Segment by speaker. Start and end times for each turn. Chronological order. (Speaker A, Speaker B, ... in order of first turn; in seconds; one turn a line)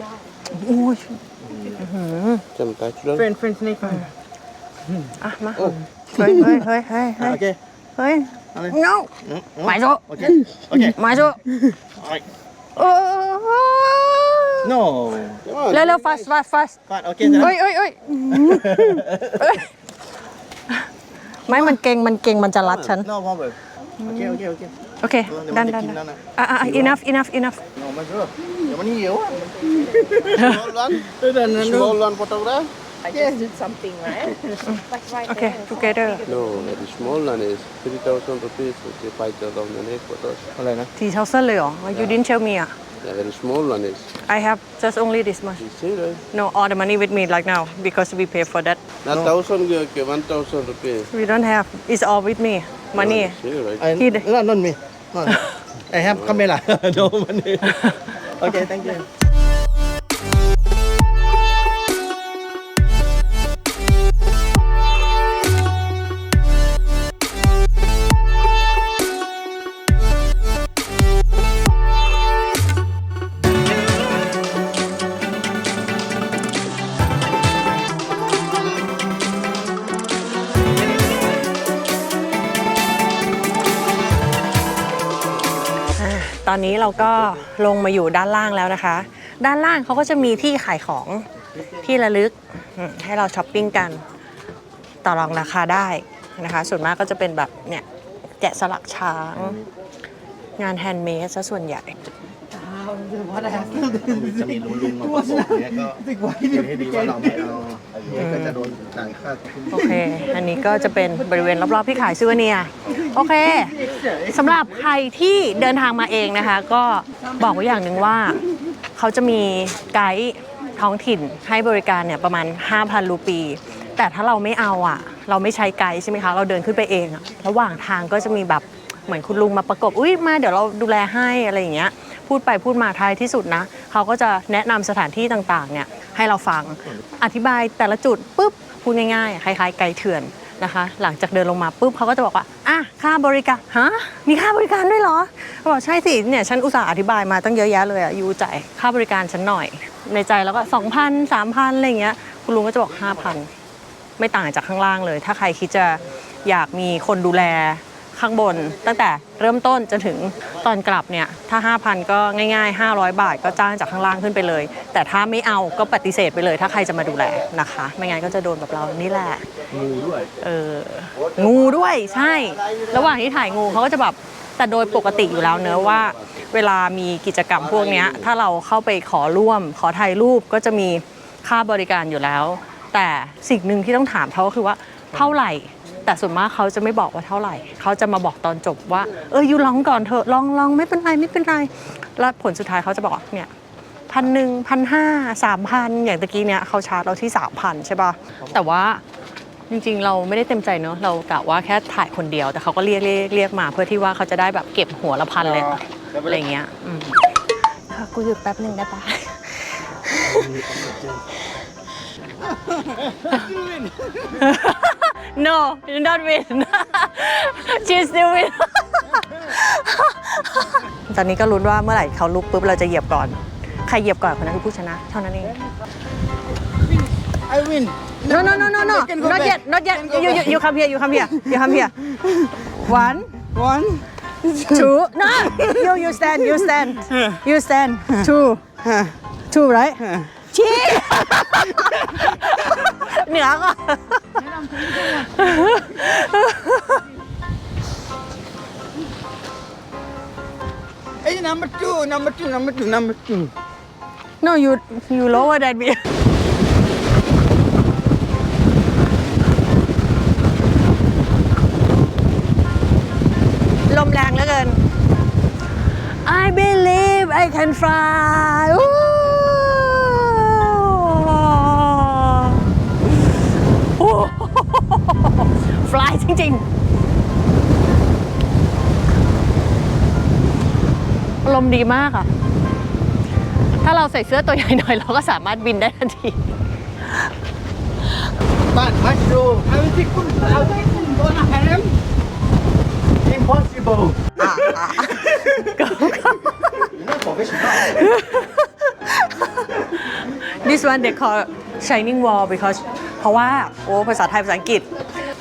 Speaker A: 0.5-1.2
Speaker B: 1.5-1.8
Speaker A: 1.8-2.4
Speaker C: 2.5-3.4
Speaker D: 3.4-3.8
Speaker A: 5.2-7.4
Speaker B: 7.2-7.6
Speaker A: 8.0-11.6
Speaker B: 8.5-11.0
Speaker B: 12.0-12.2
Speaker A: 12.8-14.7
Speaker B: 14.6-15.5
Speaker C: 15.4-16.2
Speaker A: 15.7-19.7
Speaker B: 16.9-17.6
Speaker B: 18.3-19.4
Speaker A: 21.4-23.1
Speaker B: 23.0-27.0
Speaker A: 24.0-24.4
Speaker A: 25.0-27.6
Speaker B: 27.8-30.6
Speaker C: 30.0-32.7
Speaker B: 31.1-31.9
Speaker C: 34.0-34.4
Speaker A: 34.6-36.2
Speaker C: 36.2-40.5
Speaker B: 40.5-40.9
Speaker A: 41.0-42.7
Speaker C: 43.0-44.1
Speaker A: 44.2-45.6
Speaker C: 45.6-46.2
Speaker A: 46.3-48.8
Speaker C: 49.0-51.1
Speaker A: 51.1-53.4
Speaker C: 53.0-53.9
Speaker B: 53.8-59.1
Speaker A: 53.9-54.2
Speaker C: 56.1-56.4
Speaker A: 86.0-91.3
Speaker A: 91.8-94.0
Speaker A: 95.0-97.8
Speaker A: 98.4-99.6
Speaker A: 100.6-101.9
Speaker D: 102.7-103.3
Speaker B: 103.2-109.9
Speaker A: 108.2-108.6
Speaker A: 109.7-118.4
Speaker A: 118.9-153.5
Speaker A: 154.2-169.5
Speaker B: 169.7-170.3
Speaker A: 170.4-193.5
Speaker A: 194.1-199.0
Speaker A: 199.7-210.6
Speaker D: 205.4-206.4
Speaker A: 214.2-225.6
Speaker A: 228.2-233.5
Speaker B: 233.6-234.0
Speaker A: 234.5-238.8
Speaker A: 239.5-247.1
Speaker D: 251.2-253.5
Speaker A: 254.4-256.0
Speaker A: 263.9-264.8
Speaker A: 266.2-272.7
Speaker A: 273.8-276.6
Speaker A: 281.4-282.3
Speaker A: 283.8-286.4
Speaker B: 288.7-291.6
Speaker D: 289.9-291.9
Speaker B: 293.2-294.4
Speaker A: 294.4-296.8
Speaker B: 296.7-298.1
Speaker A: 297.6-304.9